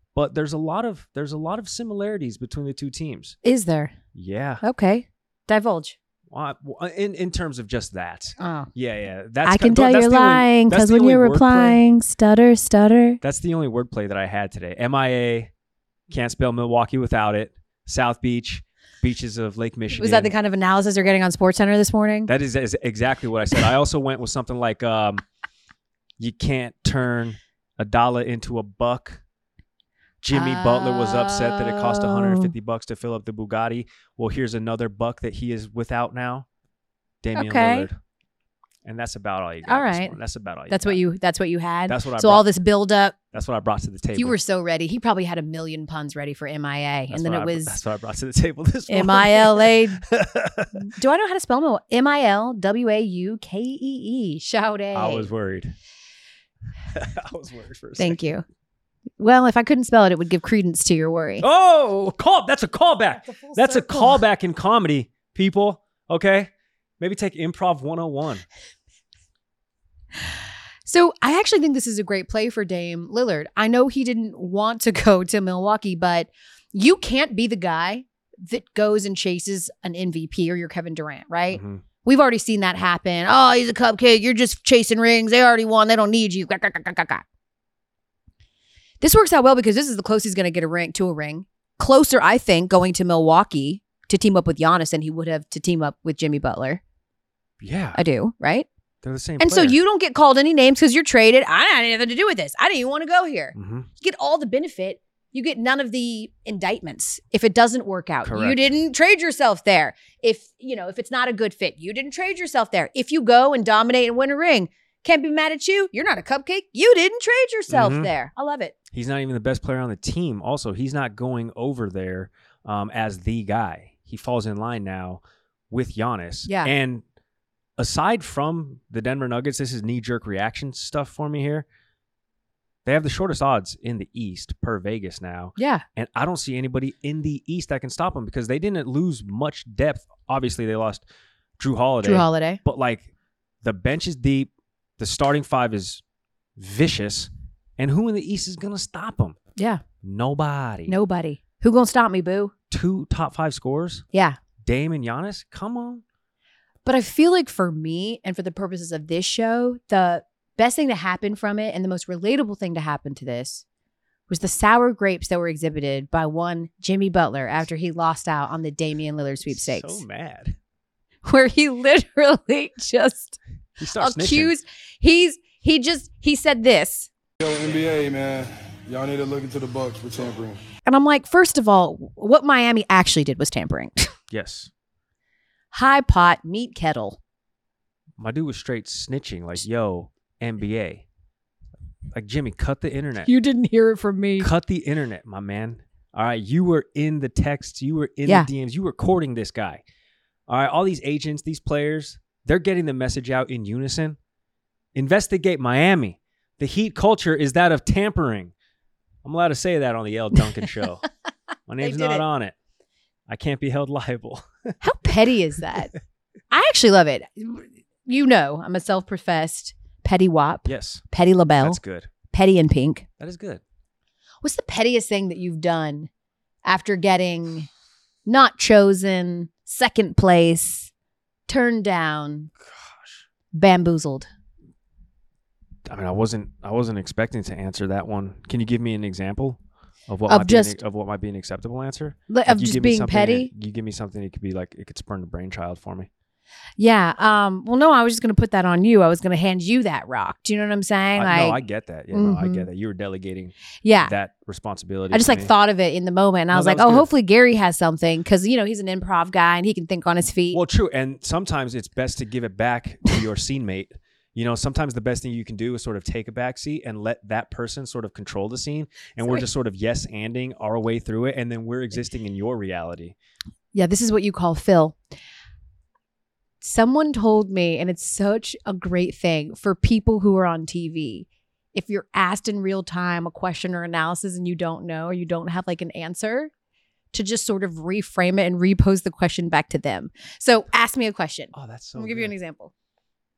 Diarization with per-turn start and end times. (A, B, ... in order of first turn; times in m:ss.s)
0:00.2-0:03.4 A
0:03.4-0:04.0 B
0:04.1-0:04.6 A
0:04.6-0:06.0 B
0:06.3-0:11.8 A
0:08.4-0:08.7 B
0:09.4-0:13.2 B
0:13.2-0:15.5 A
0:16.1-0:20.3 A
0:19.9-0:22.3 B
0:22.3-0:25.2 A
0:26.2-0:29.2 A
0:30.2-0:36.5 A
0:30.3-0:32.5 B
0:37.2-0:38.0 A
0:37.4-0:37.9 B
0:38.8-0:41.0 A
0:39.7-0:40.2 B
0:40.7-0:43.2 B
0:41.9-0:42.5 A
0:43.3-0:44.4 A
0:44.2-0:47.8 B
0:47.1-0:50.9 A
0:48.9-0:50.0 B
0:50.8-0:55.3 B
0:54.9-0:55.8 A
0:56.9-0:58.2 A
0:58.0-0:58.4 B
0:59.2-1:01.4 B
1:01.4-1:08.4 A
1:03.2-1:04.2 B
1:10.9-1:27.2 B
1:21.5-1:21.8 A
1:29.0-1:36.8 B
1:37.6-1:38.0 A
1:38.0-1:38.7 B
1:39.0-1:39.8 A
1:39.4-1:58.7 B
1:43.6-1:43.9 A
1:48.2-1:48.7 A
1:57.7-1:58.1 A
1:58.9-2:07.0 A
2:06.5-2:06.7 B
2:07.8-2:11.7 A
2:12.8-2:21.0 A
2:15.6-2:15.8 B
2:21.6-2:23.1 A
2:22.0-2:22.6 B
2:23.6-2:26.0 A
2:26.6-2:29.4 A
2:29.6-2:29.8 B
2:30.0-2:31.0 A
2:30.9-2:32.5 B
2:32.7-2:34.1 A
2:34.1-2:34.4 B
2:34.6-2:36.0 A
2:36.8-2:43.6 B
2:44.3-2:50.0 B
2:49.5-2:50.6 A
2:51.2-2:53.4 B
2:53.8-2:54.5 A
2:53.9-2:57.1 B
2:57.4-3:00.6 C
3:00.9-3:04.1 B
3:04.3-3:04.7 A
3:05.7-3:07.2 B
3:08.2-3:11.0 A
3:12.2-3:13.3 A
3:13.2-3:14.5 B
3:14.4-3:19.8 A
3:20.5-3:24.2 A
3:25.0-3:28.5 A
3:29.2-3:31.0 A
3:31.7-3:32.6 A
3:31.8-3:32.2 B
3:33.3-3:34.8 A
3:34.8-3:35.9 B
3:36.5-3:41.8 B
3:40.7-3:41.0 A
3:41.6-3:42.1 A
3:42.3-3:43.1 B
3:43.2-3:43.6 A
3:44.4-3:46.1 B
3:46.6-3:47.7 B
3:48.3-3:50.9 B
3:51.5-3:52.5 B
3:52.6-3:53.2 A
3:53.5-3:54.3 B
3:55.9-4:06.1 A
4:00.3-4:00.8 B
4:02.3-4:03.5 B
4:06.8-4:11.6 B
4:11.2-4:15.5 A
4:12.1-4:12.7 B
4:13.8-4:14.1 B
4:15.1-4:20.6 B
4:16.5-4:17.1 A
4:20.5-4:33.2 A
4:33.7-4:35.0 B
4:36.6-4:46.5 B
4:47.1-4:52.7 B
4:51.5-4:52.3 A